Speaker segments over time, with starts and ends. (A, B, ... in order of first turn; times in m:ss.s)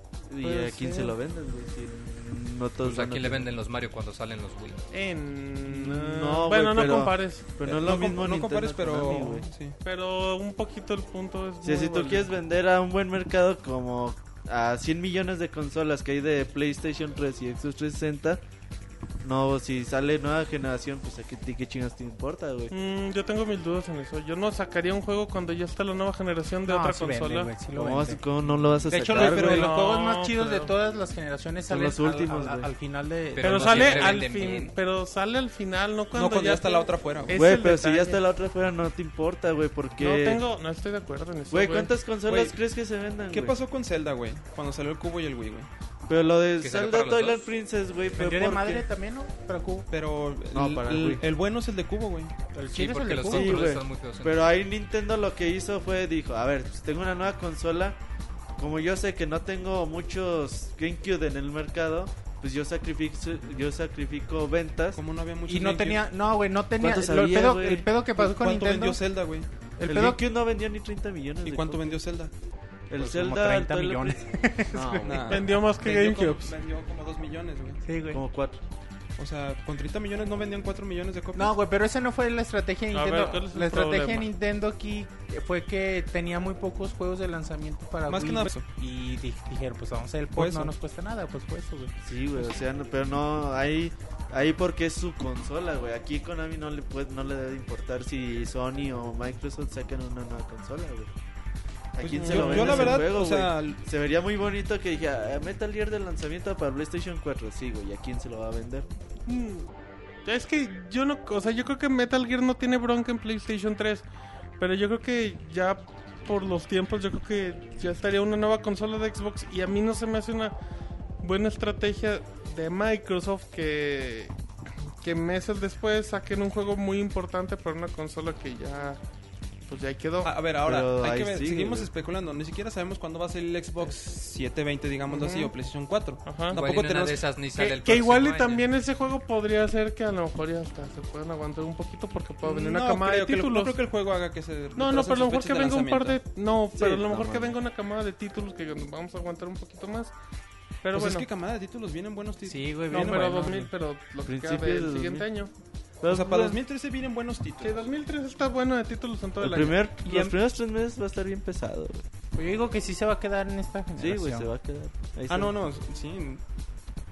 0:00.3-0:03.5 A
0:00.4-0:01.1 B
0:02.8-0:04.8 C
0:04.9-0:07.5 B
0:05.7-0:09.5 A
0:07.6-0:09.8 D
0:09.8-0:12.3 B
0:11.6-0:18.4 A
0:19.2-0:22.7 A
0:22.7-0:27.6 B
0:26.7-0:28.2 E
0:27.7-0:29.7 A
0:28.9-0:34.2 E
0:29.1-0:29.7 D
0:29.4-0:30.7 B
0:31.7-0:32.7 A
0:33.3-0:34.7 C
0:33.4-0:38.2 B
0:36.1-0:37.4 D
0:37.3-0:40.4 A
0:40.0-0:41.9 B
0:41.5-0:43.6 A
0:42.3-0:42.6 D
0:43.3-0:45.7 D
0:46.1-0:48.9 A
0:46.6-0:47.5 C
0:48.2-0:49.9 E
0:49.9-0:52.3 D
0:50.5-0:51.2 A
0:52.5-0:53.7 E
0:52.7-0:54.5 C
0:53.3-0:58.0 A
0:58.6-1:05.0 A
1:04.9-1:06.0 D
1:05.4-1:09.1 E
1:06.8-1:07.9 A
1:08.2-1:09.5 D
1:09.8-1:10.2 E
1:09.8-1:12.0 A
1:11.4-1:12.3 D
1:12.9-1:15.4 A
1:13.0-1:15.4 E
1:15.0-1:17.8 D
1:15.3-1:16.5 B
1:17.8-1:18.2 E
1:18.1-1:18.6 A
1:19.2-1:21.5 D
1:21.3-1:31.9 E
1:22.9-1:24.3 B
1:28.1-1:28.7 D
1:30.3-1:30.7 D
1:32.0-1:41.1 A
1:42.0-1:48.9 A
1:42.0-1:43.8 D
1:42.1-1:43.1 B
1:49.3-1:49.7 B
1:50.2-1:54.0 B
1:54.6-2:00.5 B
2:01.2-2:04.3 B
2:05.0-2:09.0 B
2:09.7-2:10.4 B
2:10.2-2:17.3 D
2:10.6-2:11.9 A
2:15.1-2:15.5 B
2:16.2-2:16.6 B
2:16.5-2:18.7 C
2:17.6-2:23.8 B
2:22.4-2:26.2 D
2:24.8-2:30.1 B
2:26.8-2:27.6 A
2:30.8-2:31.3 B
2:30.9-2:33.5 D
2:32.4-2:33.7 E
2:32.9-2:35.5 B
2:34.2-2:35.3 A
2:36.0-2:36.6 A
2:36.0-2:37.8 D
2:37.6-2:39.9 B
2:39.4-2:42.0 A
2:40.0-2:40.3 D
2:42.4-2:44.5 E
2:44.0-2:45.5 A
2:45.3-2:46.4 D